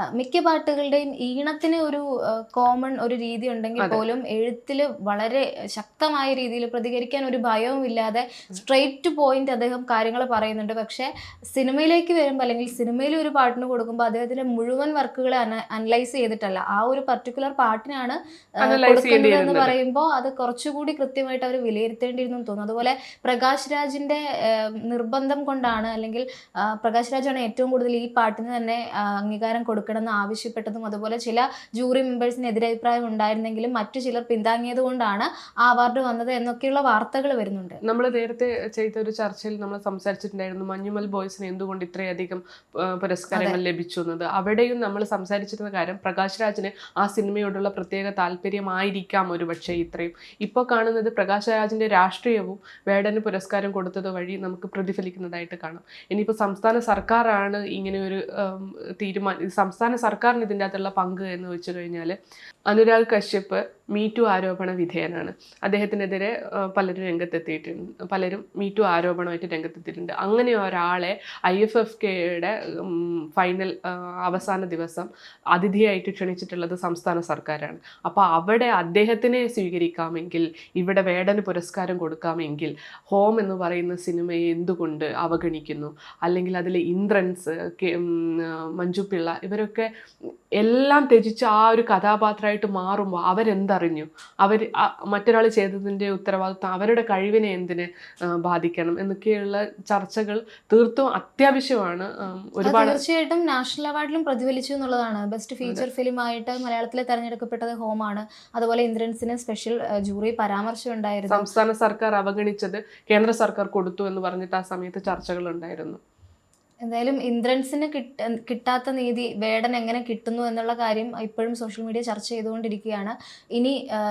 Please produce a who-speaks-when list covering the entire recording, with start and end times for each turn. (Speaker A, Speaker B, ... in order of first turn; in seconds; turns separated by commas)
Speaker A: 0.1-24.2, Speaker B: 18.6-19.8, Speaker A: 24.8-37.8, Speaker B: 37.8-62.2, Speaker B: 62.7-89.9, Speaker B: 90.6-103.0, Speaker A: 102.6-111.5, Speaker B: 111.3-116.0, Speaker A: 116.8-123.8